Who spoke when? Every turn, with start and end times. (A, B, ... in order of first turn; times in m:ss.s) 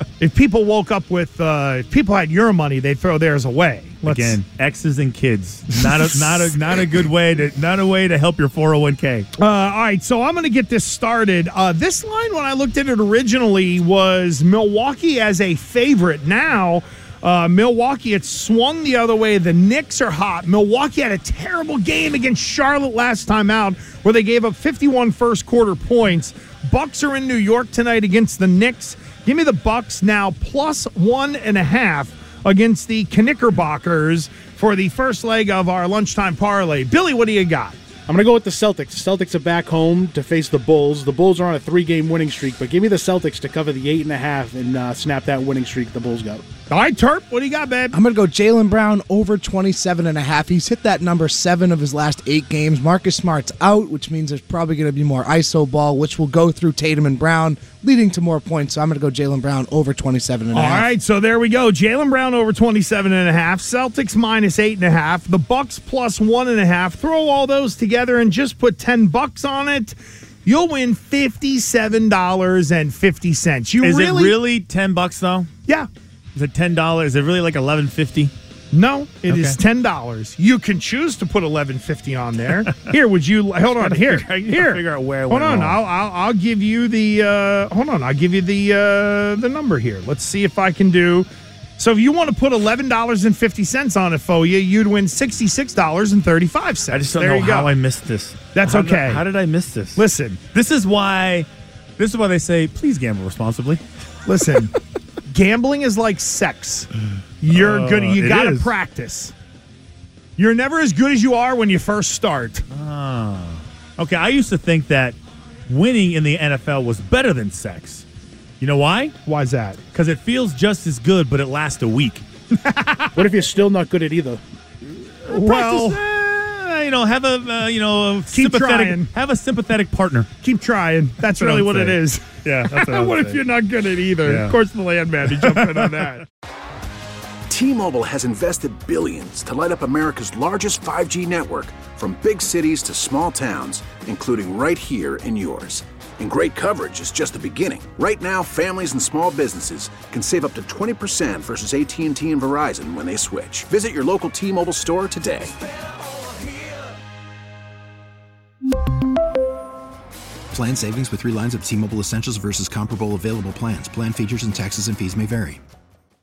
0:00.2-0:04.3 A
0:04.0-0:09.3 B
0:09.4-0:37.8 A
0:38.1-0:46.4 C
0:46.7-0:47.9 A
0:47.9-1:00.9 D
1:00.6-1:14.3 A
1:13.8-1:15.5 B
1:16.4-1:18.3 B
1:18.7-1:24.8 A
1:19.2-1:19.6 B
1:23.8-1:25.8 B
1:25.3-1:37.7 A
1:36.9-1:43.8 B
1:38.6-1:39.2 A
1:40.0-1:40.4 A
1:44.3-1:44.7 A
1:45.3-1:46.9 A
1:47.4-1:49.3 A
1:47.5-1:48.7 B
1:50.4-1:52.6 A
1:52.7-1:55.2 B
1:55.7-1:58.1 B
1:58.6-1:59.2 B
1:59.3-1:59.8 A
1:59.9-2:02.2 B
2:02.6-2:03.0 A
2:03.1-2:04.4 C
2:05.2-2:10.3 B
2:05.3-2:06.0 A
2:08.3-2:09.1 A
2:10.4-2:16.2 A
2:11.2-2:13.4 B
2:14.2-2:14.6 B
2:15.3-2:16.1 B
2:17.5-2:35.5 E
2:40.5-2:45.6 F